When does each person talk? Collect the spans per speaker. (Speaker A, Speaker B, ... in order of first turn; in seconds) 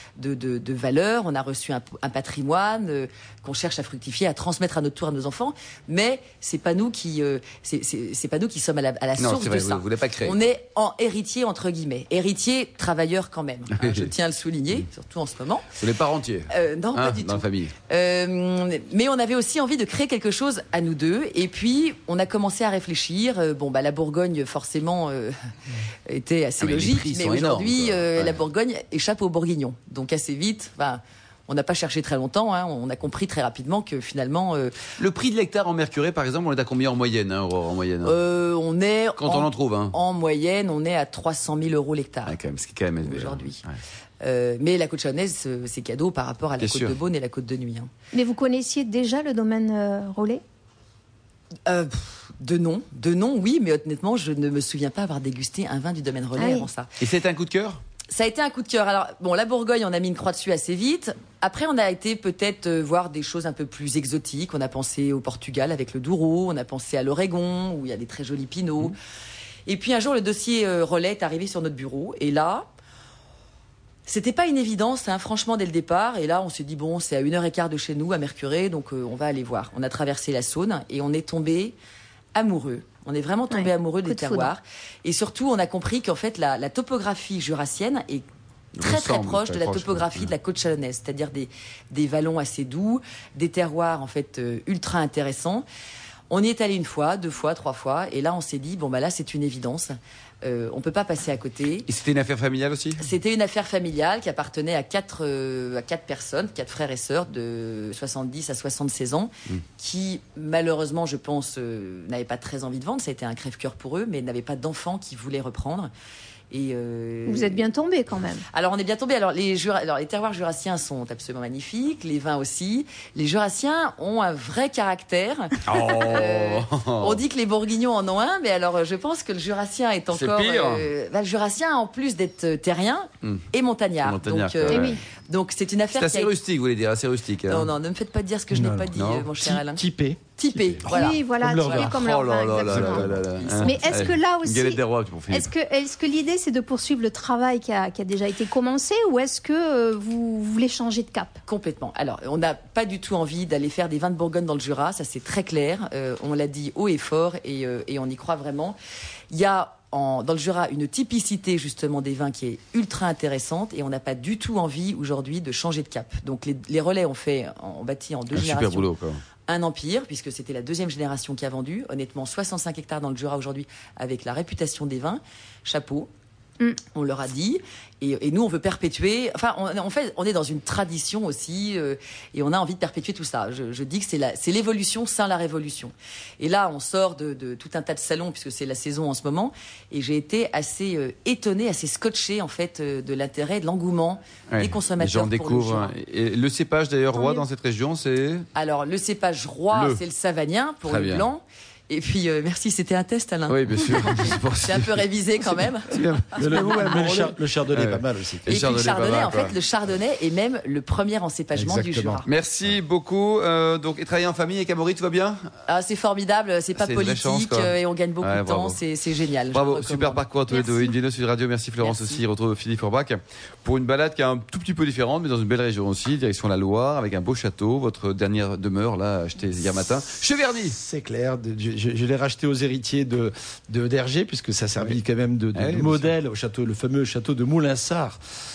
Speaker A: 0.2-15.7, 16.5-25.5, 26.1-34.8, 38.0-42.4, 43.0-43.6, 44.2-47.9, 51.6-56.9, 58.1-68.9, 69.7-72.7, 74.0-81.7, 82.3-88.2, 88.8-95.7, 96.3-101.9, 103.0-115.9, 116.5-117.7, 118.5-136.3, 137.5-139.8, 140.4-141.9, 143.2-144.1, 151.5-158.8, 159.3-168.9, 169.5-176.1, 176.9-195.9, 198.5-206.8, 208.5-212.3, 215.7-220.2, 221.8-222.2
Speaker B: 9.2-10.3, 13.8-14.1, 15.8-17.7, 26.6-28.4, 35.0-38.1, 39.2-39.9, 42.2-43.8, 46.6-46.9, 57.0-57.8, 88.8-90.3, 101.9-103.0, 125.6-127.2, 130.1-130.9, 134.0-135.0, 135.9-137.7, 138.9-139.3, 141.7-145.5, 168.3-169.2, 194.5-198.5, 199.7-200.0, 200.9-201.3, 203.5-205.1, 205.8-209.6, 212.3-215.5, 216.8-218.8, 219.5-230.8, 235.5-236.1
Speaker C: 48.1-50.4, 56.4-56.7, 83.5-84.5, 117.3-118.4, 134.7-135.0, 140.9-143.1, 143.6-144.8, 145.3-151.4, 197.1-197.4, 220.5-220.9
Speaker D: 138.5-142.0, 142.7-143.2, 206.4-208.5, 211.5-212.2, 230.7-238.2